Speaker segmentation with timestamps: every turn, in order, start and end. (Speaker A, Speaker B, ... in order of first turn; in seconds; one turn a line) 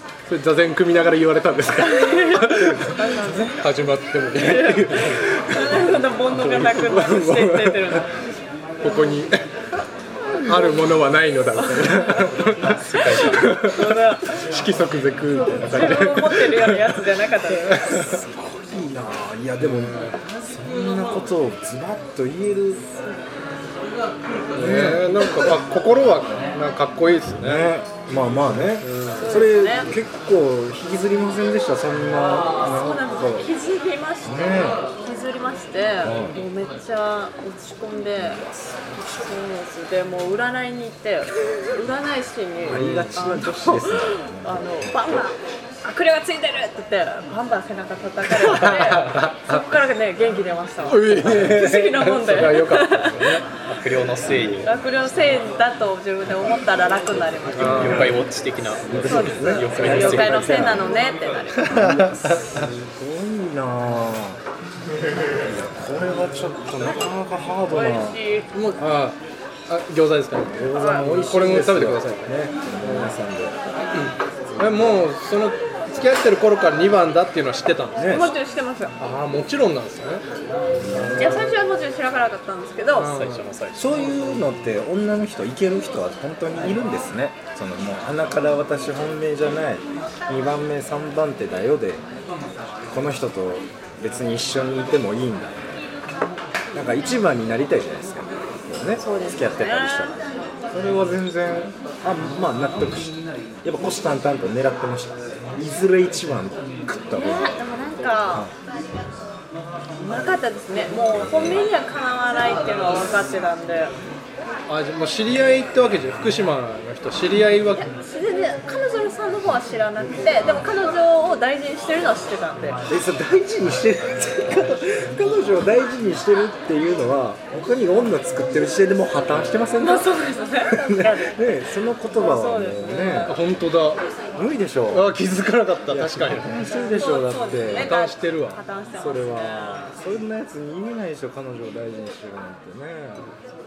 Speaker A: 0.3-2.9
Speaker B: 1.8-3.6
Speaker C: 2.7-3.6
Speaker A: 3.5-5.2
Speaker B: 4.3-8.2
Speaker C: 4.5-8.0
Speaker A: 8.8-9.4
Speaker B: 10.3-12.3
Speaker A: 10.4-18.1
Speaker D: 12.5-13.6
Speaker B: 13.0-14.4
Speaker B: 15.3-18.2
Speaker C: 17.8-22.8
Speaker A: 19.6-20.1
Speaker C: 24.5-25.5
Speaker A: 24.5-27.7
Speaker C: 27.4-33.5
Speaker A: 28.8-29.2
Speaker B: 29.2-29.9
Speaker B: 32.2-38.5
Speaker C: 34.2-34.8
Speaker C: 36.0-36.4
Speaker C: 38.2-39.0
Speaker B: 39.0-53.5
Speaker C: 42.7-45.3
Speaker A: 42.7-43.3
Speaker A: 48.4-49.6
Speaker A: 50.9-53.4
Speaker D: 52.3-54.7
Speaker B: 54.6-58.2
Speaker D: 57.6-60.8
Speaker A: 57.6-58.2
Speaker C: 58.8-60.9
Speaker B: 59.0-61.9
Speaker A: 61.5-62.6
Speaker C: 61.7-64.4
Speaker C: 65.4-68.2
Speaker B: 67.7-68.5
Speaker A: 68.5-73.1
Speaker C: 70.5-73.6
Speaker B: 70.8-71.1
Speaker A: 73.9-78.2
Speaker C: 74.5-75.1
Speaker C: 78.0-78.3
Speaker B: 78.0-79.0
Speaker A: 79.0-80.2
Speaker C: 80.8-81.5
Speaker A: 80.9-81.5
Speaker B: 81.2-83.2
Speaker A: 83.0-83.5
Speaker D: 83.1-84.0
Speaker C: 83.8-92.0
Speaker C: 92.9-95.9
Speaker C: 96.7-100.1
Speaker B: 99.0-100.5
Speaker C: 100.7-107.6
Speaker B: 107.1-108.5
Speaker B: 110.0-113.9
Speaker C: 111.2-111.7
Speaker A: 114.7-117.9
Speaker B: 117.7-122.8
Speaker C: 122.9-133.4
Speaker B: 129.8-133.4
Speaker A: 133.3-134.0
Speaker C: 134.3-135.2
Speaker A: 134.9-136.6
Speaker C: 135.9-137.9
Speaker B: 136.7-140.0
Speaker A: 137.7-139.9
Speaker C: 139.9-143.3